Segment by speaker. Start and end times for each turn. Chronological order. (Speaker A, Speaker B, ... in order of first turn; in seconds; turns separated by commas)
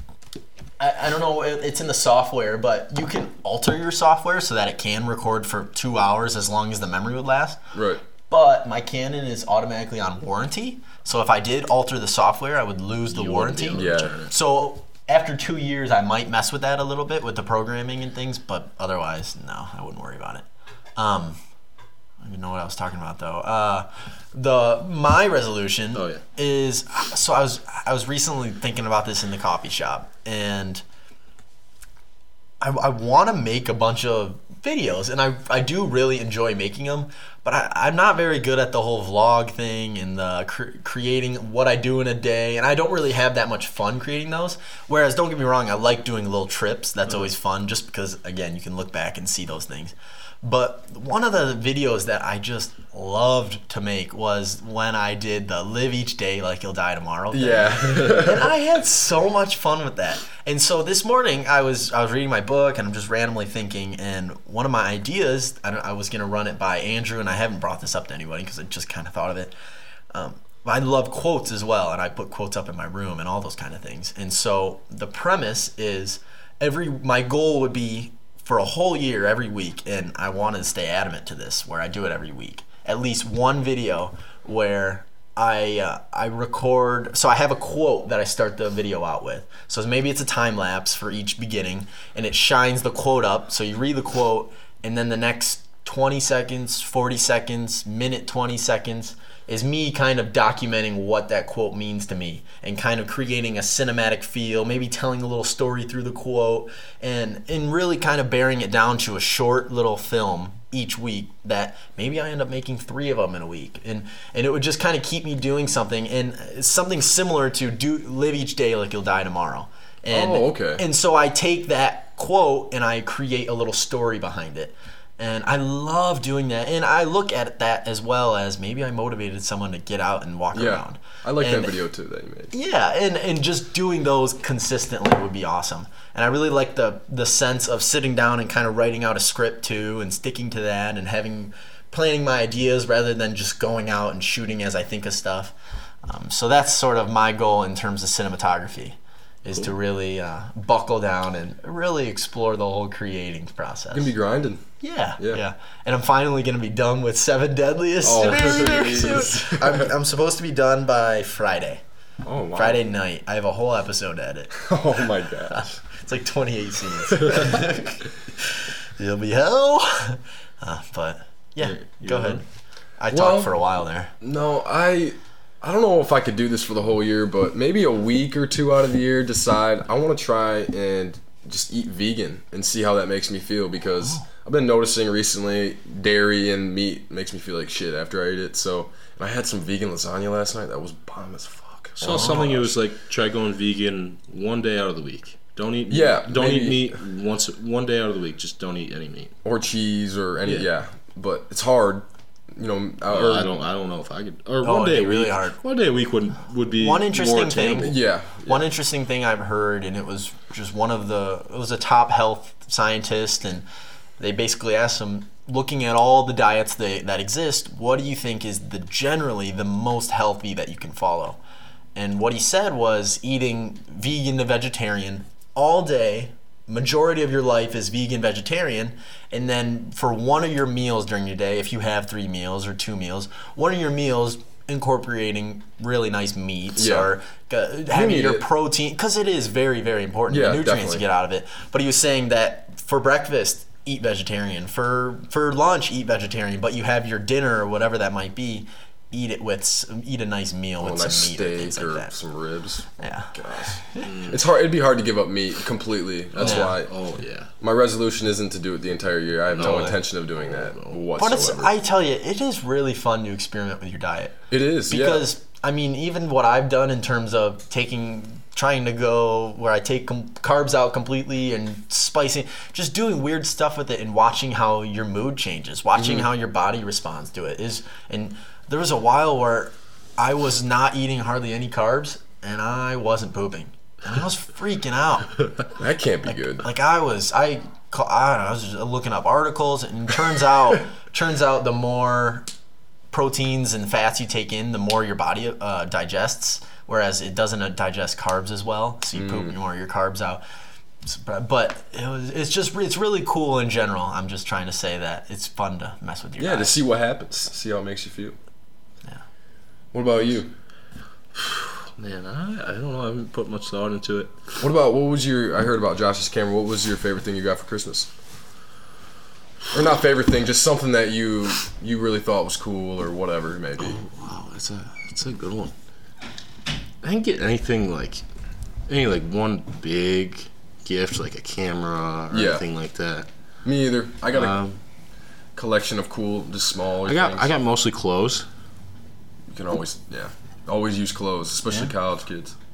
Speaker A: 0.8-7.6, Speaker B: 7.7-8.0, Speaker A: 8.3-20.4, Speaker C: 13.1-14.3, Speaker B: 13.7-14.1, Speaker A: 21.0-21.4, Speaker A: 22.2-30.8, Speaker C: 25.9-26.2, Speaker A: 32.6-69.5, Speaker B: 57.3-58.5, Speaker A: 70.1-131.8, Speaker B: 120.1-120.8, Speaker B: 130.5-132.5, Speaker A: 132.5-154.1, Speaker B: 153.9-154.6, Speaker A: 154.8-161.8, Speaker B: 158.0-159.9, Speaker B: 162.2-162.8, Speaker A: 162.5-164.7, Speaker B: 164.6-165.8, Speaker A: 165.5-172.4, Speaker C: 171.6-172.4, Speaker A: 173.0-174.1, Speaker B: 173.1-173.5, Speaker B: 174.2-192.7, Speaker C: 192.0-199.3, Speaker A: 192.1-192.3, Speaker B: 195.9-197.0, Speaker B: 199.4-203.5, Speaker C: 203.1-207.9, Speaker A: 204.6-205.6, Speaker A: 206.8-213.6, Speaker B: 207.8-208.7, Speaker A: 214.2-221.4, Speaker A: 221.9-252.1, Speaker B: 236.8-237.1, Speaker B: 237.9-238.4, Speaker B: 240.3-241.0, Speaker B: 250.8-256.9, Speaker A: 253.0-254.1, Speaker C: 254.0-254.4, Speaker C: 256.3-257.5, Speaker A: 256.4-256.7, Speaker B: 257.6-261.7, Speaker C: 259.5-261.0, Speaker A: 261.2-285.6, Speaker B: 264.5-265.3, Speaker B: 276.0-276.2, Speaker B: 285.8-286.7, Speaker A: 286.5-292.4, Speaker A: 293.1-300.4, Speaker B: 299.1-299.5, Speaker A: 301.0-306.8, Speaker B: 306.4-308.4, Speaker B: 309.9-310.5, Speaker C: 311.3-314.4, Speaker B: 314.6-318.1, Speaker B: 319.7-324.0, Speaker C: 323.8-325.7, Speaker C: 327.0-328.2, Speaker C: 328.9-333.3, Speaker B: 332.3-332.6, Speaker B: 333.6-334.6, Speaker C: 334.3-334.8, Speaker B: 335.6-337.5, Speaker C: 337.1-338.4, Speaker B: 339.5-342.5